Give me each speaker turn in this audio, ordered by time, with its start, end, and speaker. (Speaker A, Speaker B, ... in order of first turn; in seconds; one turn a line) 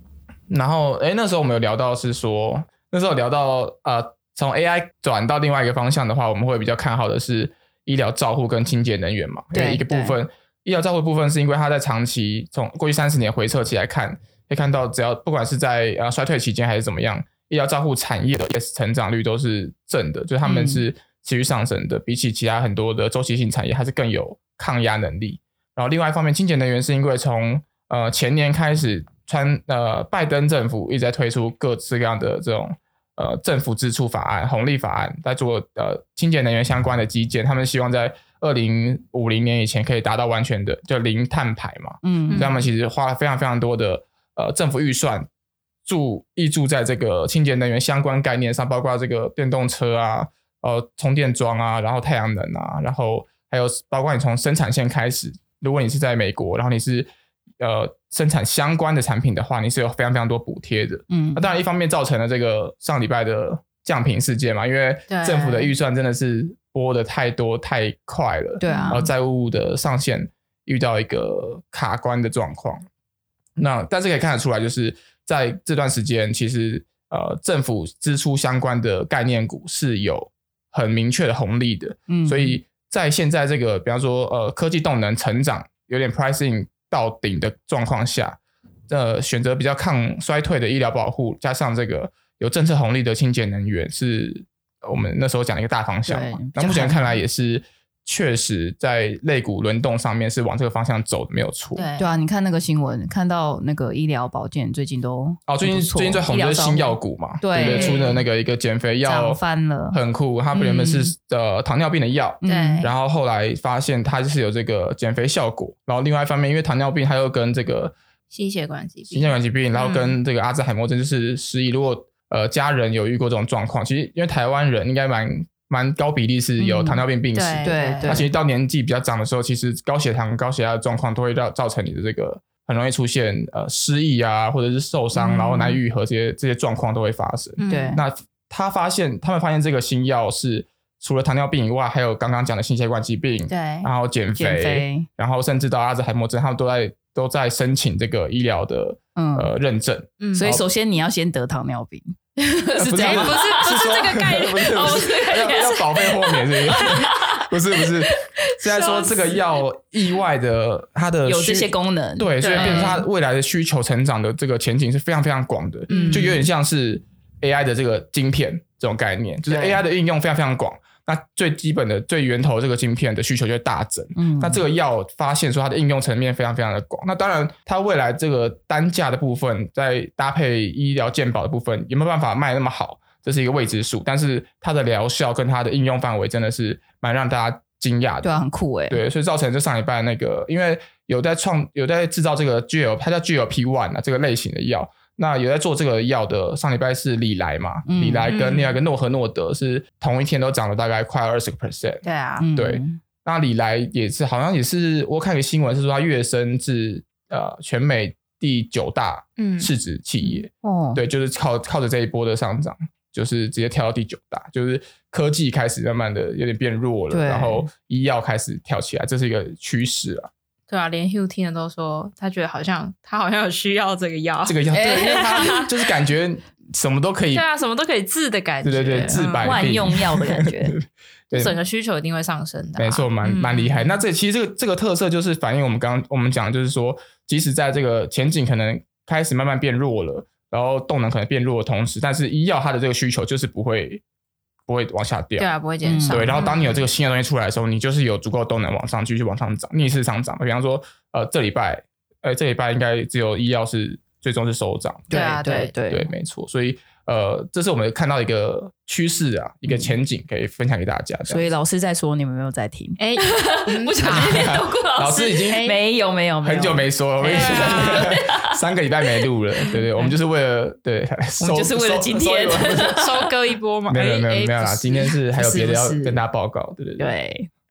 Speaker A: 0.5-45.3
Speaker B: 9.5-10.2
Speaker B: 20.4-20.9
Speaker B: 42.0-42.5
Speaker C: 42.3-42.7
Speaker A: 45.9-72.8
Speaker B: 61.1-61.4
Speaker C: 65.1-65.7
Speaker B: 68.6-69.1
Speaker C: 68.6-69.0
Speaker A: 73.6-101.9
Speaker B: 82.1-82.6
Speaker B: 96.1-97.0
Speaker C: 101.8-102.2
Speaker B: 102.0-108.2
Speaker A: 105.5-118.0
Speaker C: 107.5-108.2
Speaker B: 109.0-111.1
Speaker B: 112.4-112.9
Speaker C: 112.4-112.9
Speaker C: 118.3-120.2
Speaker A: 119.1-150.7
Speaker B: 126.6-127.0
Speaker C: 127.3-128.3
Speaker B: 127.6-128.3
Speaker B: 135.2-135.8
Speaker C: 137.6-138.0
Speaker B: 137.7-138.0
Speaker C: 143.5-143.9
Speaker B: 144.3-145.1
Speaker B: 149.2-149.5
Speaker C: 150.2-150.5
Speaker B: 150.3-153.8
Speaker A: 152.8-220.3
Speaker C: 153.0-155.6
Speaker B: 154.6-158.2
Speaker C: 158.8-159.4
Speaker B: 161.2-163.1
Speaker C: 162.4-163.0
Speaker B: 165.9-166.4
Speaker C: 165.9-166.4
Speaker B: 169.5-169.8
Speaker B: 174.2-174.7
Speaker B: 188.2-189.0
Speaker B: 197.9-198.3
Speaker C: 198.3-198.8
Speaker C: 202.0-202.5
Speaker B: 202.4-203.0
Speaker C: 209.4-209.7
Speaker B: 210.6-211.0
Speaker B: 217.1-217.7
Speaker C: 220.7-225.7
Speaker A: 224.5-227.4
Speaker B: 224.7-225.6
Speaker C: 227.3-229.7
Speaker A: 228.6-231.6
Speaker B: 229.1-230.8
Speaker C: 231.3-234.0
Speaker A: 232.8-244.0
Speaker A: 244.7-245.5
Speaker C: 245.4-246.9
Speaker B: 245.8-246.3
Speaker A: 246.1-255.2
Speaker B: 255.1-256.1
Speaker C: 255.1-255.7
Speaker A: 255.9-261.5
Speaker B: 259.6-259.9
Speaker B: 261.2-268.6
Speaker C: 263.0-264.4
Speaker A: 264.1-265.7
Speaker C: 265.5-265.8
Speaker A: 266.4-273.1
Speaker C: 267.2-268.2
Speaker B: 269.2-270.2
Speaker B: 271.4-273.3
Speaker C: 273.0-275.2
Speaker A: 273.9-277.1
Speaker B: 275.3-276.2
Speaker B: 277.0-277.5